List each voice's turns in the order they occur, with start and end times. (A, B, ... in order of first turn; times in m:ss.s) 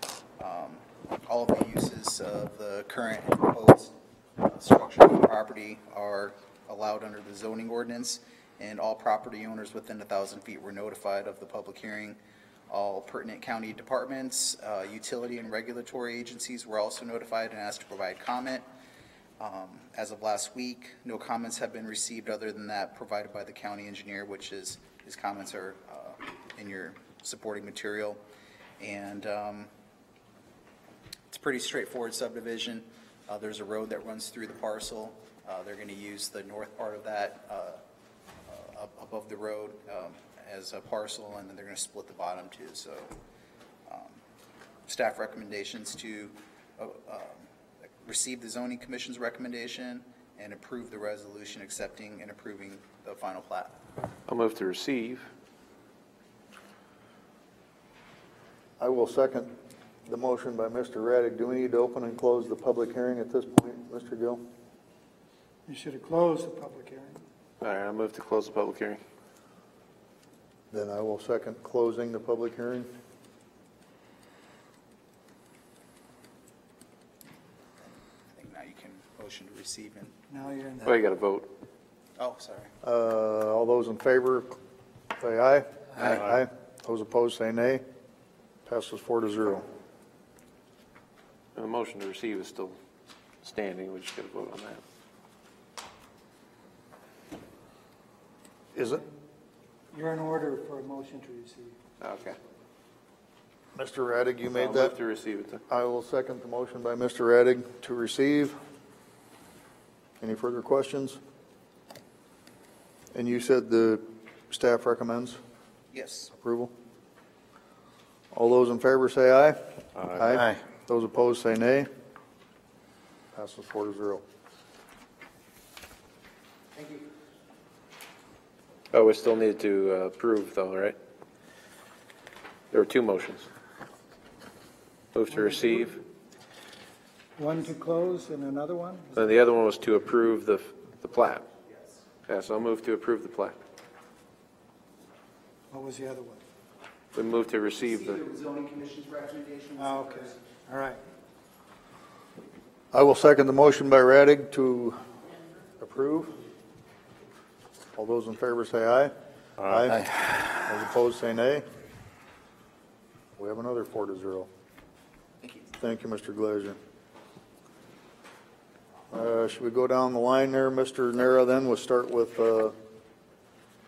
0:00.4-0:18.7 A
0:19.4-0:28.2 A
0:28.8-0:29.7 A
0:31.3-0:37.8 A
0:38.5-0:43.1 A
0:43.9-0:44.2 A
0:44.9-0:47.5 A
0:48.0-0:53.8 A
0:54.3-0:55.3 B
0:58.8-0:59.5 C
1:00.1-1:04.4 C
1:05.7-1:07.2 D
1:07.6-1:09.0 B
1:10.7-1:12.9 C
1:17.8-1:20.2 A
1:20.3-1:21.0 D
1:20.8-1:21.5 B
1:22.2-1:22.7 A
1:22.8-1:24.6 C
1:25.2-1:27.8 C
1:28.7-1:29.7 C
1:31.6-1:32.8 B
1:33.4-1:34.8 B
1:38.7-1:39.0 C
1:39.9-1:41.8 D
1:42.0-1:42.4 B
1:43.8-1:45.0 C
1:44.5-1:45.6 B
1:45.7-1:48.6 C
1:50.2-1:51.2 C
1:53.1-1:55.4 C
1:55.9-1:56.3 A
1:56.3-1:56.7 C
1:58.3-1:59.6 C
2:00.1-2:01.9 C
2:03.3-2:04.2 C
2:08.9-2:11.0 B
2:12.7-2:13.5 B
2:15.1-2:16.0 B
2:15.3-2:16.0 D
2:17.4-2:19.3 D
2:19.2-2:21.5 B
2:22.3-2:23.6 B
2:25.7-2:26.4 D
2:27.1-2:28.3 B
2:29.8-2:31.0 D
2:32.9-2:35.0 C
2:35.8-2:36.4 C
2:37.9-2:41.6 C
2:43.4-2:44.5 C
2:45.8-2:46.8 C
2:49.1-2:52.8 C